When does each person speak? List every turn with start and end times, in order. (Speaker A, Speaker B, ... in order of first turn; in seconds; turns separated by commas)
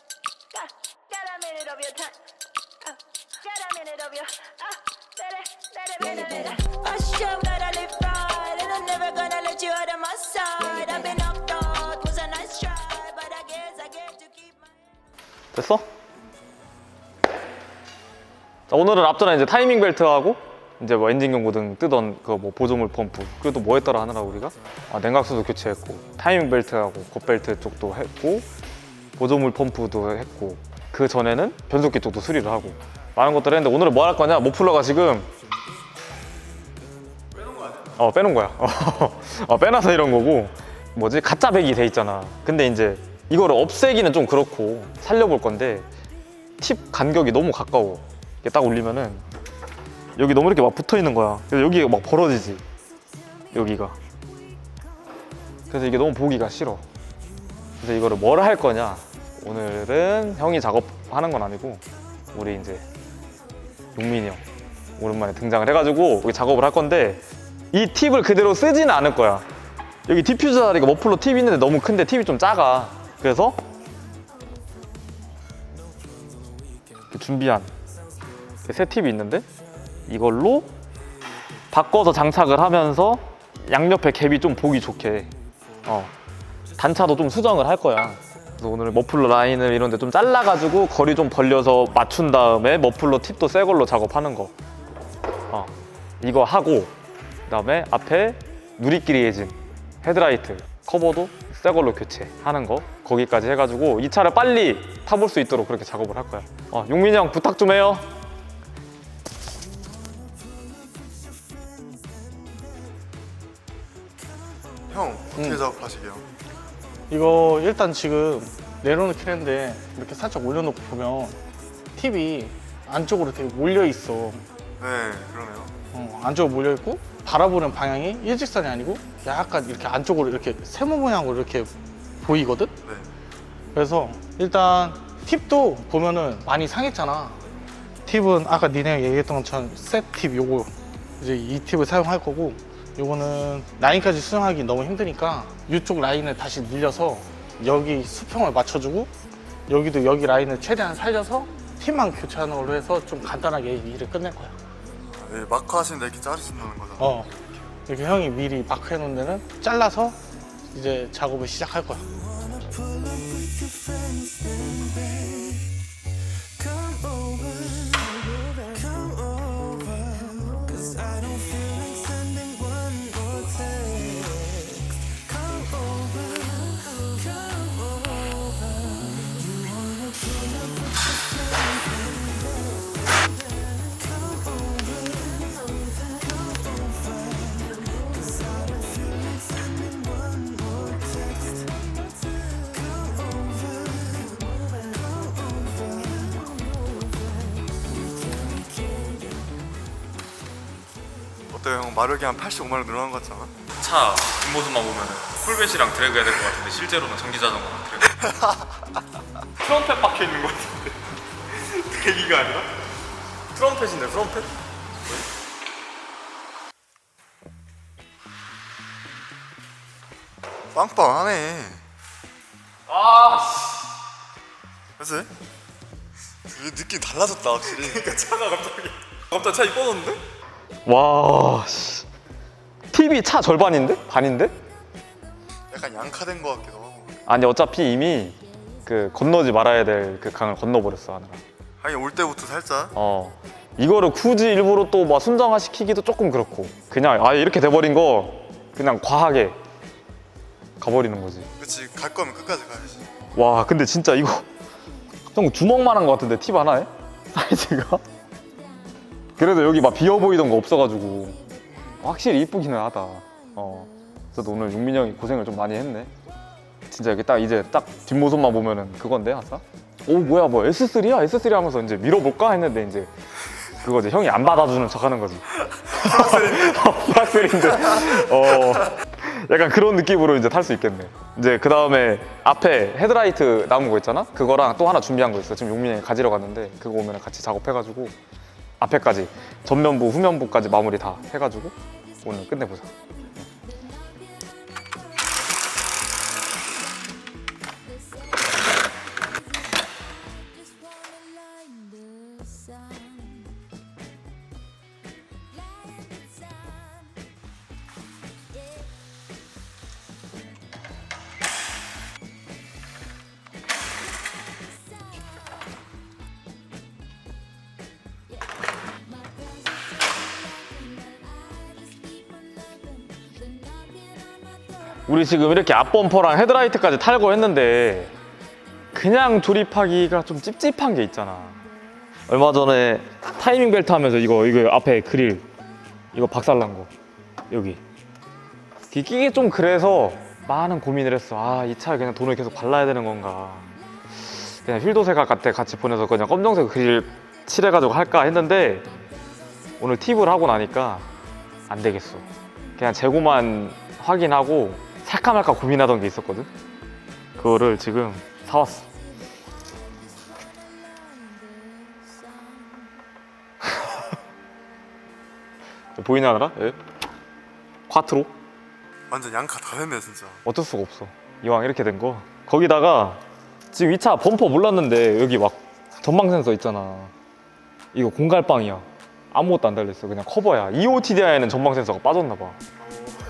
Speaker A: 0.5-2.1, Speaker A: 2.9-14.7, Speaker B: 15.5-15.9, Speaker B: 18.7-28.5, Speaker B: 29.1-35.3, Speaker B: 38.0-45.9, Speaker B: 46.6-49.2, Speaker B: 50.2-52.6, Speaker B: 53.5-54.0, Speaker B: 55.7-56.8, Speaker B: 57.8-61.8, Speaker B: 62.3-62.8, Speaker B: 64.0-64.4, Speaker B: 65.0-69.5, Speaker B: 70.1-73.6, Speaker B: 77.1-77.7, Speaker B: 78.7-79.5, Speaker B: 80.1-80.7, Speaker B: 81.7-85.3, Speaker B: 85.8-86.1, Speaker B: 86.8-94.5, Speaker B: 95.5-96.9, Speaker B: 97.5-108.1, Speaker C: 114.9-116.3, Speaker D: 115.4-115.6, Speaker D: 117.1-121.4, Speaker D: 122.0-124.4, Speaker C: 124.8-125.7, Speaker D: 125.9-131.7, Speaker D: 132.2-132.7, Speaker C: 132.8-133.1, Speaker D: 133.7-137.4, Speaker D: 138.1-149.1, Speaker D: 149.7-154.5, Speaker C: 155.1-157.4, Speaker D: 157.0-157.3, Speaker D: 157.9-160.2, Speaker D: 160.7-162.1, Speaker C: 201.5-203.5, Speaker B: 203.8-208.3, Speaker B: 209.6-212.7, Speaker B: 213.5-214.5, Speaker C: 220.7-221.8, Speaker B: 222.9-223.7, Speaker C: 225.0-225.3, Speaker C: 226.4-228.6, Speaker B: 228.6-228.9, Speaker C: 229.3-230.2, Speaker B: 230.8-232.1, Speaker B: 232.9-234.6, Speaker C: 235.7-237.1, Speaker B: 237.2-241.4, Speaker C: 241.8-242.9, Speaker B: 242.9-249.6, Speaker B: 250.8-251.5, Speaker C: 251.6-253.1, Speaker B: 253.3-254.5, Speaker B: 255.3-258.0, Speaker B: 259.4-261.4, Speaker B: 262.0-266.1, Speaker B: 266.9-273.1, Speaker B: 273.8-288.2, Speaker C: 276.0-276.9, Speaker B: 288.8-292.9, Speaker B: 325.1-328.2, Speaker B: 328.9-331.7, Speaker B: 332.3-335.4, Speaker B: 336.1-336.9, Speaker B: 337.5-337.8, Speaker B: 338.9-348.9, Speaker B: 349.8-351.1, Speaker B: 351.7-356.5, Speaker B: 357.4-358.9, Speaker B: 366.0-366.8, Speaker B: 367.9-368.3, Speaker C: 369.1-370.4, Speaker B: 370.4-377.1, Speaker B: 377.9-382.6